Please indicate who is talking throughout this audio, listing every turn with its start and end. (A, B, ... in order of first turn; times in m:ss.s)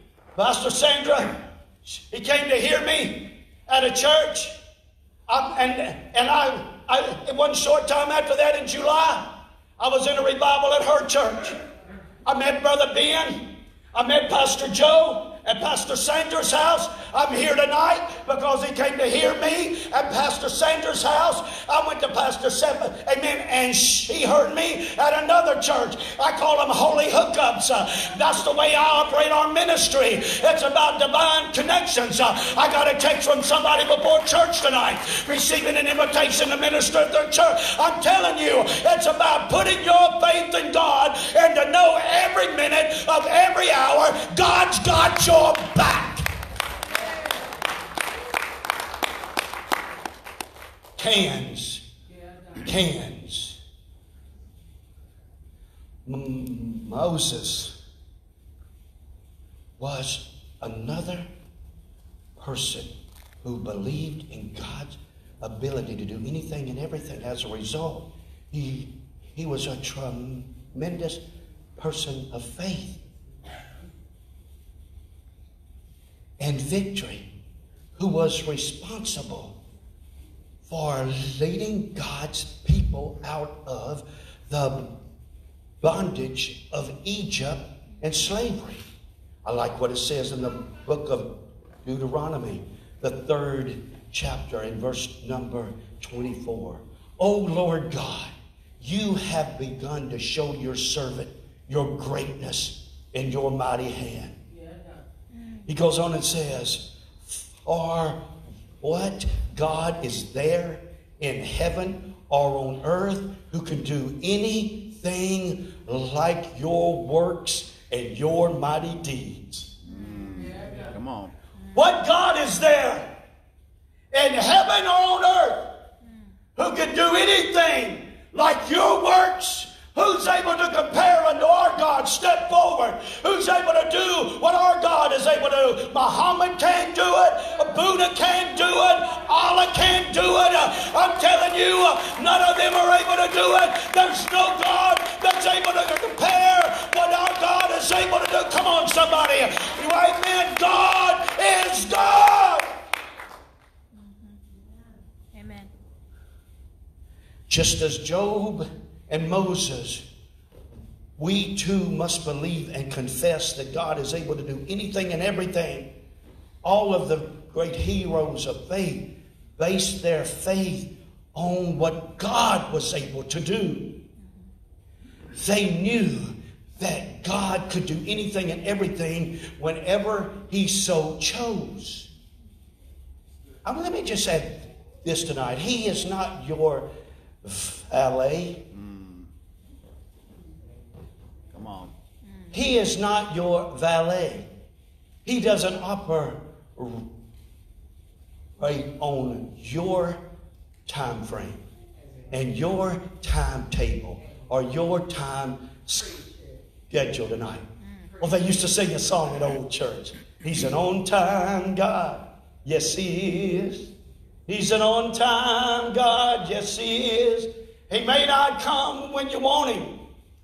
0:00.3-0:04.6 A
0:05.3-0:11.6 A
0:12.2-0:13.4 A
0:13.9-0:46.3 A
0:51.0-0:51.8 A
0:52.6-0:53.6 A
0:56.0-0:57.8 A
0:59.8-1:01.3 A
1:02.4-1:11.2 A
1:11.8-1:13.0 A
1:16.4-1:17.3 A
1:18.0-1:19.5 A
1:20.7-1:24.9 A
1:25.8-1:28.8 A
1:29.4-1:31.3 A
1:31.8-1:44.4 A
1:45.3-1:45.6 B
1:45.7-1:48.2 A
1:48.8-1:59.7 A
1:59.8-2:01.3 C
1:59.9-2:00.4 B
2:01.7-2:03.1 A
2:04.1-2:05.7 A
2:06.6-2:32.7 A
2:34.0-2:34.3 B
2:35.3-2:35.7 B
2:37.5-2:40.0 A
2:41.2-2:45.9 A
2:46.6-2:53.9 A
2:55.4-3:02.1 A
3:03.6-3:06.9 A
3:07.4-3:08.6 A
3:08.7-3:09.3 C
3:11.5-3:11.9 C
3:12.2-3:12.5 B
3:12.5-3:14.5 A
3:15.2-3:17.0 A
3:18.6-3:20.2 A
3:20.9-3:21.6 A
3:22.3-3:26.2 A
3:26.9-3:27.6 A
3:27.8-3:28.1 B
3:28.2-3:33.9 A
3:34.5-3:40.0 A